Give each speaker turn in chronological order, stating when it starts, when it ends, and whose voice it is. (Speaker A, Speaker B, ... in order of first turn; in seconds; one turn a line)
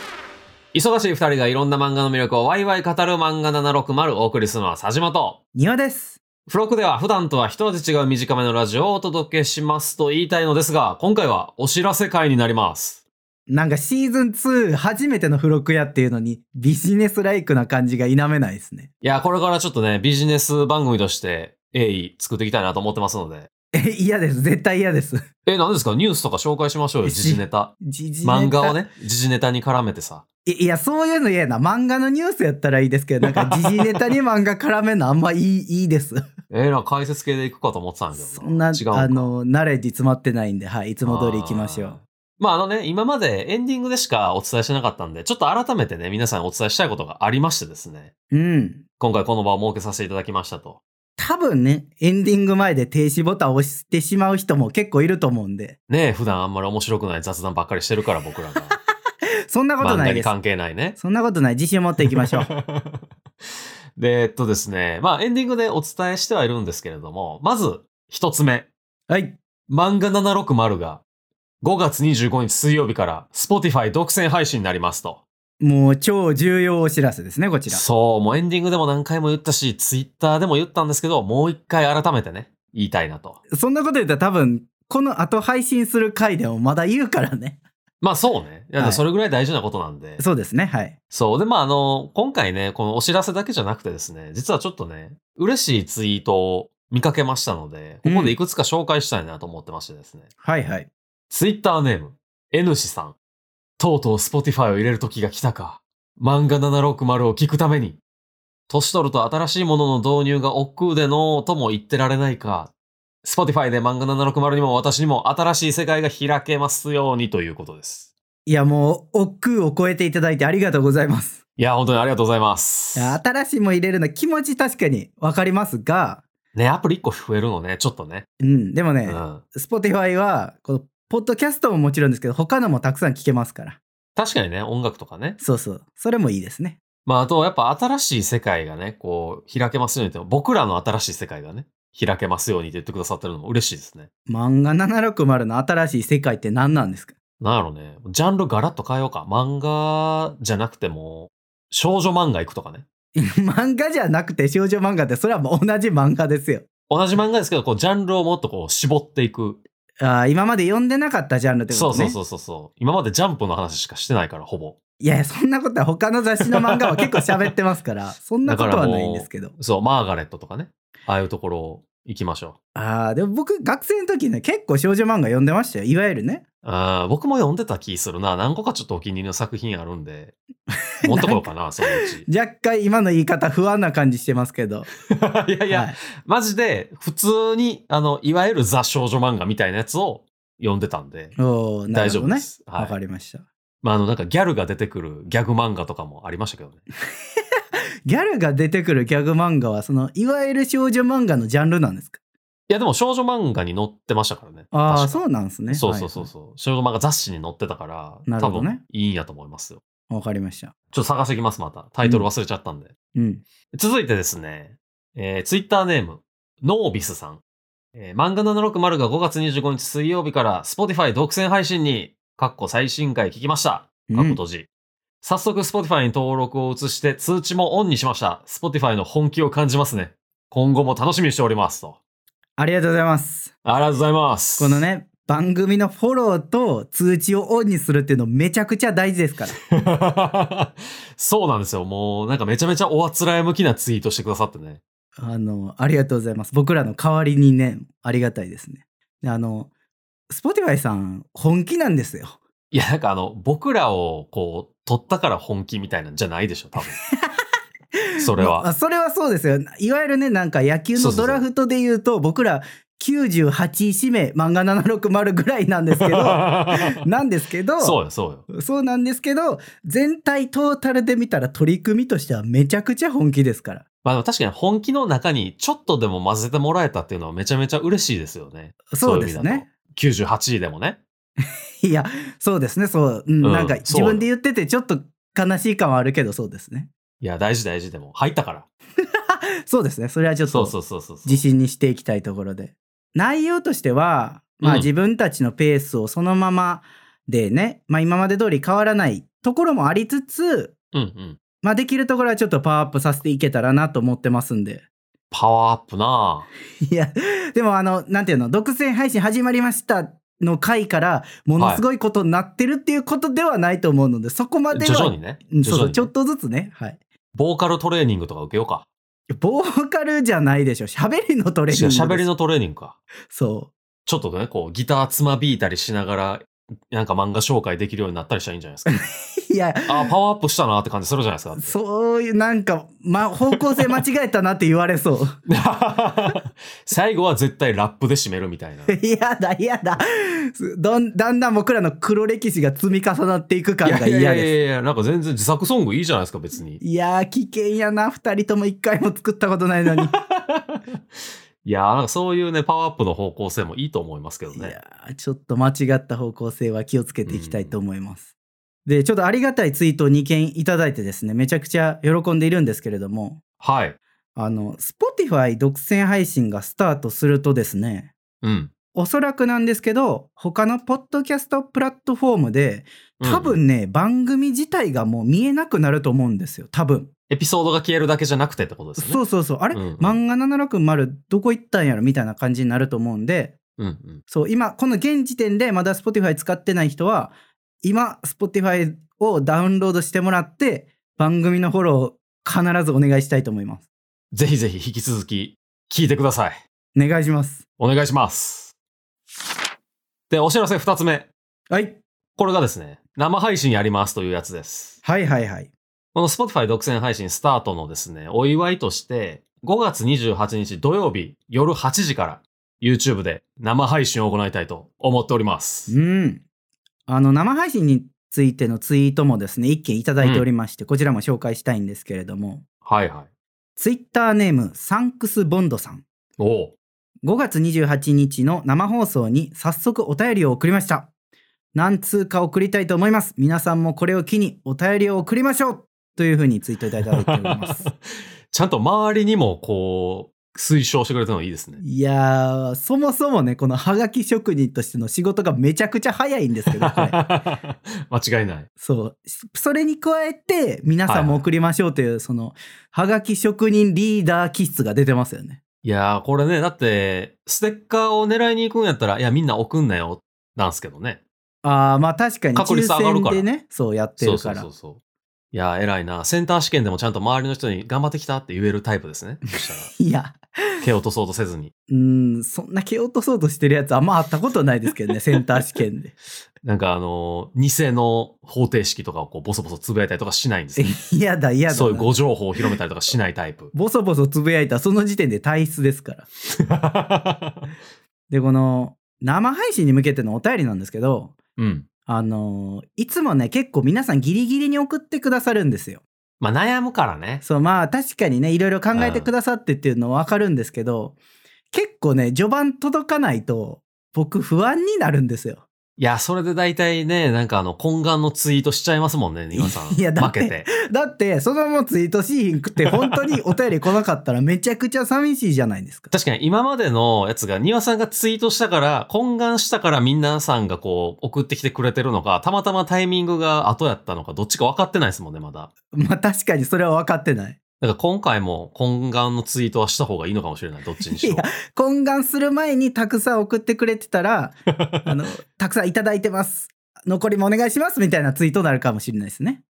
Speaker A: 0.7-5.4
Speaker B: 5.5-6.2
Speaker A: 6.5-13.0
Speaker B: 13.5-18.9
Speaker A: 19.0-23.5
Speaker B: 23.7-25.2
Speaker A: 25.5-30.2
Speaker B: 27.1-28.8
Speaker B: 30.5-36.2
Speaker A: 33.2-34.0
Speaker A: 36.5-39.3
Speaker B: 38.2-42.0
Speaker A: 41.0-48.1
Speaker B: 48.3-48.8
Speaker A: 49.0-50.8
Speaker B: 51.2-55.8
Speaker A: 55.9-58.7
Speaker B: 59.5-60.3
Speaker A: 59.8-61.0
Speaker B: 61.0-62.5
Speaker A: 62.0-63.0
Speaker A: 64.0-68.7
Speaker B: 69.1-69.4
Speaker A: 69.7-71.0
Speaker A: 71.6-75.2
Speaker B: 75.6-77.8
Speaker A: 77.7-83.4
Speaker B: 83.5-87.6
Speaker A: 88.0-90.2
Speaker B: 90.2-91.0
Speaker A: 91.1-100.3
Speaker B: 98.0-98.4
Speaker B: 100.4-100.9
Speaker A: 101.3-103.2
Speaker A: 103.8-108.0
Speaker A: 108.7-118.1
Speaker B: 118.5-121.4
Speaker A: 121.6-123.2
Speaker B: 123.0-126.2
Speaker A: 126.5-128.3
Speaker B: 128.4-133.8
Speaker A: 129.1-129.4
Speaker A: 134.2-135.4
Speaker B: 135.4-136.8
Speaker A: 137.1-144.1
Speaker B: 144.3-147.1
Speaker A: 147.4-152.8
Speaker B: 153.2-156.7
Speaker A: 156.9-159.6
Speaker B: 160.0-162.2
Speaker A: 161.7-164.8
Speaker B: 165.0-169.5
Speaker A: 166.9-167.3
Speaker A: 168.4-172.6
Speaker B: 172.8-176.4
Speaker A: 176.6-180.3
Speaker B: 181.0-184.9
Speaker A: 181.0-182.3
Speaker A: 185.1-191.3
Speaker B: 185.7-186.0
Speaker B: 191.4-193.4
Speaker A: 191.9-192.9
Speaker A: 193.8-196.8
Speaker B: 198.1-202.2
Speaker A: 202.7-209.8
Speaker B: 204.7-206.3
Speaker B: 208.3-208.8
Speaker B: 210.1-210.7
Speaker A: 210.9-212.9
Speaker B: 213.2-213.4
Speaker A: 213.7-217.4
Speaker A: 217.9-224.7
Speaker B: 224.1-224.4
Speaker A: 225.2-232.0
Speaker B: 232.6-233.5
Speaker A: 233.7-234.8
Speaker B: 234.6-239.6
Speaker A: 239.7-244.8
Speaker B: 245.2-249.7
Speaker B: 250.3-252.4
Speaker A: 252.7-257.0
Speaker B: 257.0-257.3
Speaker A: 258.2-258.7
Speaker B: 258.2-273.8
Speaker A: 260.9-261.4
Speaker A: 266.0-267.0
Speaker A: 267.8-268.4
Speaker A: 274.0-281.0
Speaker B: 278.9-279.7
Speaker B: 281.8-286.9
Speaker A: 283.4-284.3
Speaker A: 287.2-288.7
Speaker B: 289.7-290.7
Speaker A: 290.5-291.4
Speaker B: 291.3-300.7
Speaker A: 294.6-294.9
Speaker A: 300.9-301.4
Speaker B: 301.6-304.8
Speaker A: 305.3-306.5
Speaker B: 306.9-317.0
Speaker A: 311.6-311.8
Speaker A: 314.7-316.1
Speaker A: 317.4-318.9
Speaker B: 319.3-322.3
Speaker A: 321.7-323.0
Speaker B: 323.3-323.7
Speaker A: 324.1-329.0
Speaker B: 328.9-330.1
Speaker A: 329.9-331.8
Speaker B: 331.6-335.4
Speaker A: 335.5-338.9
Speaker B: 338.9-344.6
Speaker A: 343.8-346.8
Speaker B: 346.8-350.1
Speaker A: 350.1-350.8
Speaker A: 351.6-354.8
Speaker B: 354.5-358.3
Speaker A: 357.3-357.8
Speaker B: 358.9-363.4
Speaker A: 363.6-364.0
Speaker B: 364.4-368.1
Speaker A: 368.4-368.7
Speaker B: 368.9-377.1
Speaker A: 373.2-373.6
Speaker A: 377.3-379.2
Speaker B: 379.0-383.6
Speaker A: 379.7-380.2
Speaker A: 383.8-384.2
Speaker B: 384.3-393.9
Speaker A: 394.3-396.6
Speaker B: 396.9-397.6
Speaker A: 397.8-398.7
Speaker A: 400.3-401.3
Speaker B: 401.7-402.0
Speaker A: 402.4-405.0
Speaker B: 405.0-405.7
Speaker A: 406.1-415.9
Speaker B: 415.9-416.4
Speaker B: 417.1-422.6
Speaker A: 420.2-420.5
Speaker A: 422.9-423.3
Speaker B: 423.8-426.1
Speaker A: 426.4-426.8
Speaker B: 427.2-431.1
Speaker B: 431.8-437.9
Speaker A: 437.3-437.9
Speaker A: 438.5-441.8
Speaker B: 441.8-447.2
Speaker A: 446.7-448.7
Speaker B: 448.8-455.6
Speaker A: 451.1-451.4
Speaker A: 455.8-461.2
Speaker B: 461.6-464.7
Speaker A: 462.6-463.5
Speaker A: 464.2-465.0
Speaker A: 465.5-469.9
Speaker B: 469.7-470.4
Speaker A: 470.8-471.7
Speaker B: 471.9-476.1
Speaker A: 476.6-481.0
Speaker B: 480.8-482.2
Speaker A: 481.7-483.7
Speaker B: 483.7-486.3
Speaker A: 486.7-487.7
Speaker B: 488.3-491.4
Speaker A: 491.6-491.9
Speaker B: 492.1-496.0
Speaker A: 496.4-497.4
Speaker B: 497.4-501.2
Speaker A: 498.9-499.3
Speaker B: 501.7-505.6
Speaker A: 506.0-510.7
Speaker B: 509.5-516.1
Speaker A: 512.9-513.4
Speaker A: 516.1-525.7
Speaker B: 525.9-527.6
Speaker A: 527.8-531.5
Speaker B: 531.0-539.6